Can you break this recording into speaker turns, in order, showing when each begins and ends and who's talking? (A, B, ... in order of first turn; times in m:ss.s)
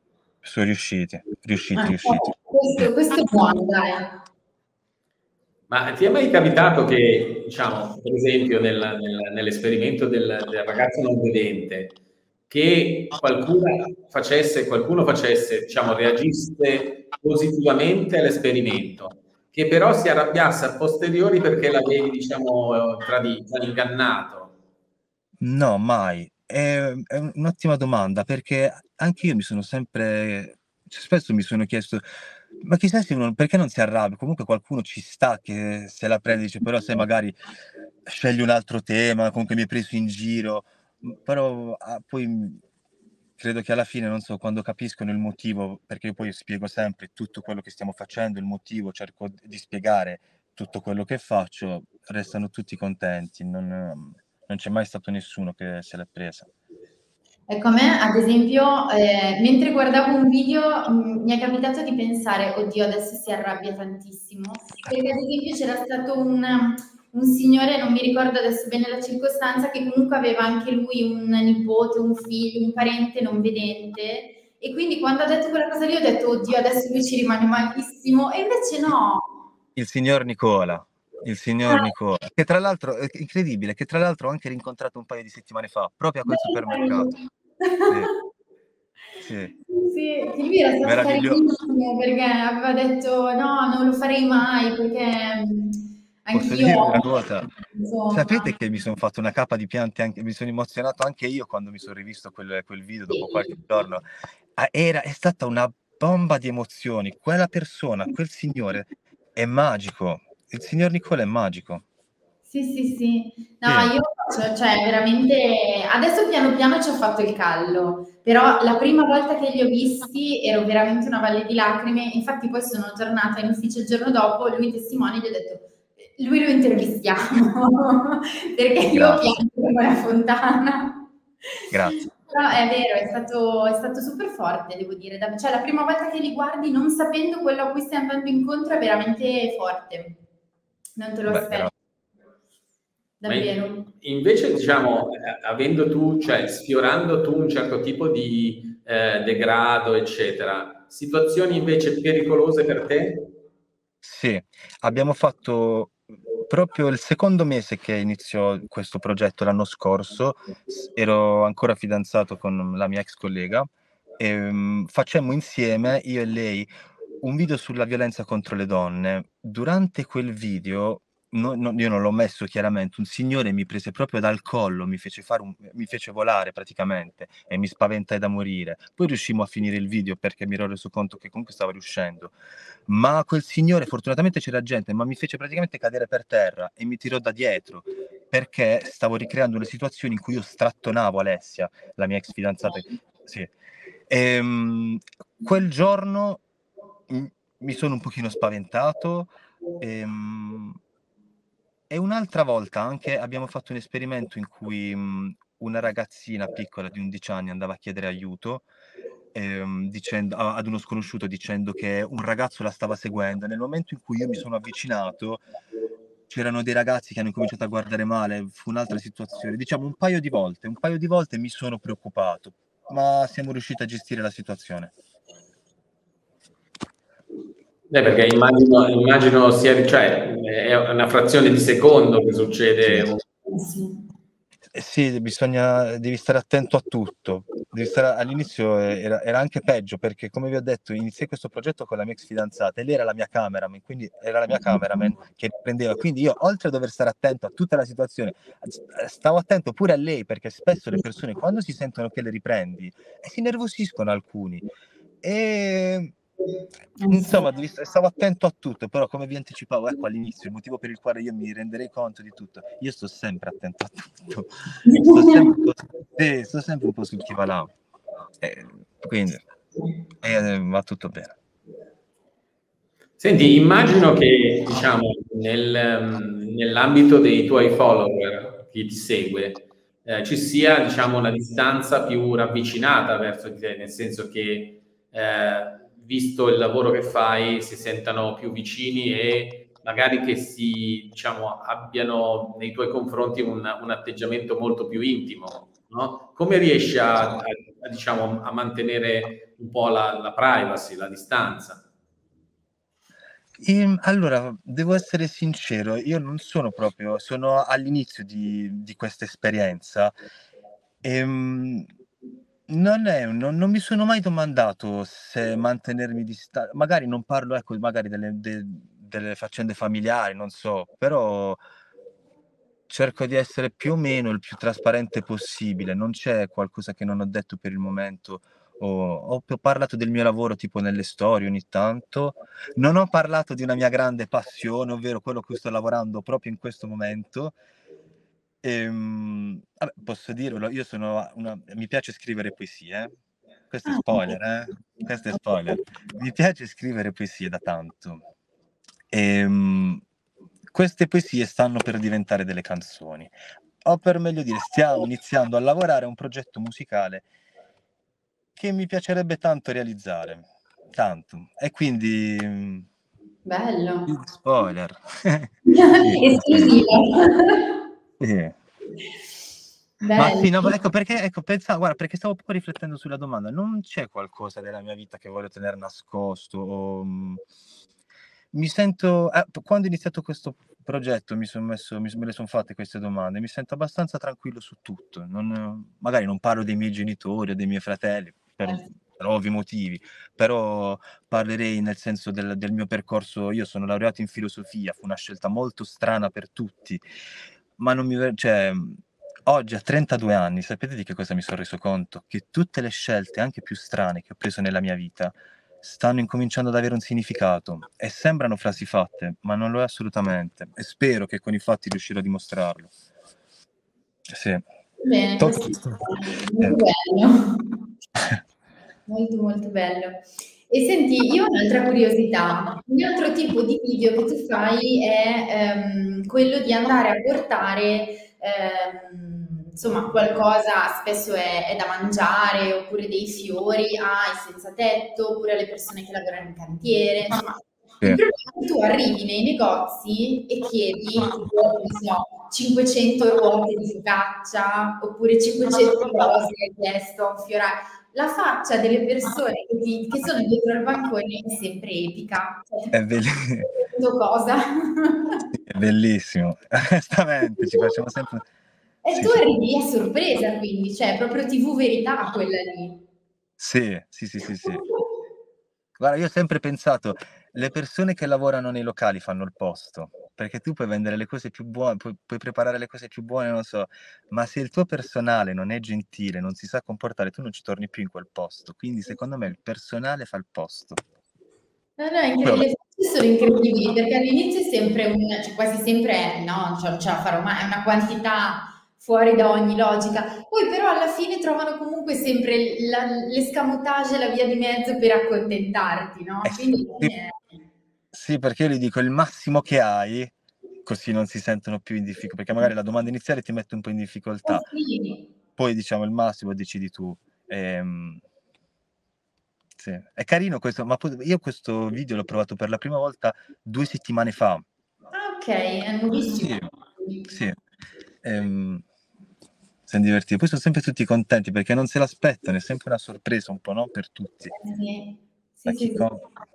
0:00.4-0:02.9 A
0:01.8-0:04.2 B
0:05.7-0:11.9 C
0:12.5-0:24.5 C
0:25.4-0:32.0 A
0:32.6-0:37.4 A
0:38.0-0:42.6 A
0:43.4-0:56.5 A
0:57.5-1:19.4 B
1:19.8-1:27.1 A
1:21.6-1:21.9 B
1:26.2-1:27.9 B
1:29.2-1:29.5 A
1:29.6-1:38.5 B
1:30.8-1:31.4 A
1:36.3-1:37.5 A
1:38.1-1:44.0 A
1:43.1-1:43.6 B
1:44.6-1:51.8 A
1:52.5-2:11.1 B
1:53.6-1:53.9 A
2:08.9-2:09.3 A
2:11.7-2:12.1 A
2:11.9-2:20.2 B
2:21.0-2:21.7 B
2:21.2-2:21.7 A
2:23.2-2:23.9 B
2:23.2-2:33.3 C
2:34.0-2:46.7 A
2:47.2-3:02.3 A
3:02.9-3:13.5 A
3:14.1-3:16.4 A
3:17.1-3:20.8 A
3:21.9-3:28.6 A
3:29.3-3:35.4 A
3:36.3-3:44.9 A
3:47.9-3:53.2 C
3:53.4-3:54.0 B
3:54.7-4:14.6 A
4:15.2-4:16.1 A
4:17.0-4:17.4 B
4:17.1-4:24.5 A
4:24.8-4:25.5 B
4:25.0-4:27.7 A
4:28.4-4:29.4 A
4:30.2-4:31.3 A
4:33.2-5:01.8 C
5:03.6-5:10.1 A
5:11.0-5:11.9 A
5:12.7-5:21.6 A
5:22.9-5:37.6 A
5:38.6-5:43.1 A
5:43.7-5:48.2 A
5:43.8-5:44.4 B
5:45.3-5:45.8 B
5:49.1-5:50.0 A
5:50.7-5:57.2 A
5:58.6-6:02.9 A
6:03.4-6:04.1 B
6:04.1-6:06.8 A
6:05.7-6:07.7 B
6:08.2-6:08.6 A
6:10.0-6:10.7 B
6:10.1-6:17.4 A
6:18.5-6:37.0 A
6:37.8-6:52.9 A
6:54.3-6:54.6 A
6:55.0-6:57.8 B
6:55.4-6:56.8 A
6:59.1-7:33.0 B
7:32.9-7:33.7 A
7:33.7-7:35.4 B
7:35.5-7:38.4 A
7:37.5-7:38.0 B
7:39.0-7:43.0 B
7:39.1-7:39.4 A
7:43.6-7:44.8 A
7:46.0-8:01.0 A
8:02.0-8:17.4 B
8:16.4-8:17.1 A
8:18.1-8:20.3 A
8:20.8-8:24.6 A
8:24.4-8:25.3 B
8:25.6-8:28.2 A
8:29.8-8:34.6 A
8:35.1-8:37.2 B
8:36.3-8:36.7 A
8:37.2-8:37.6 A
8:38.2-8:38.8 A
8:39.9-8:44.5 A
8:44.5-8:46.1 B
8:45.7-8:46.2 A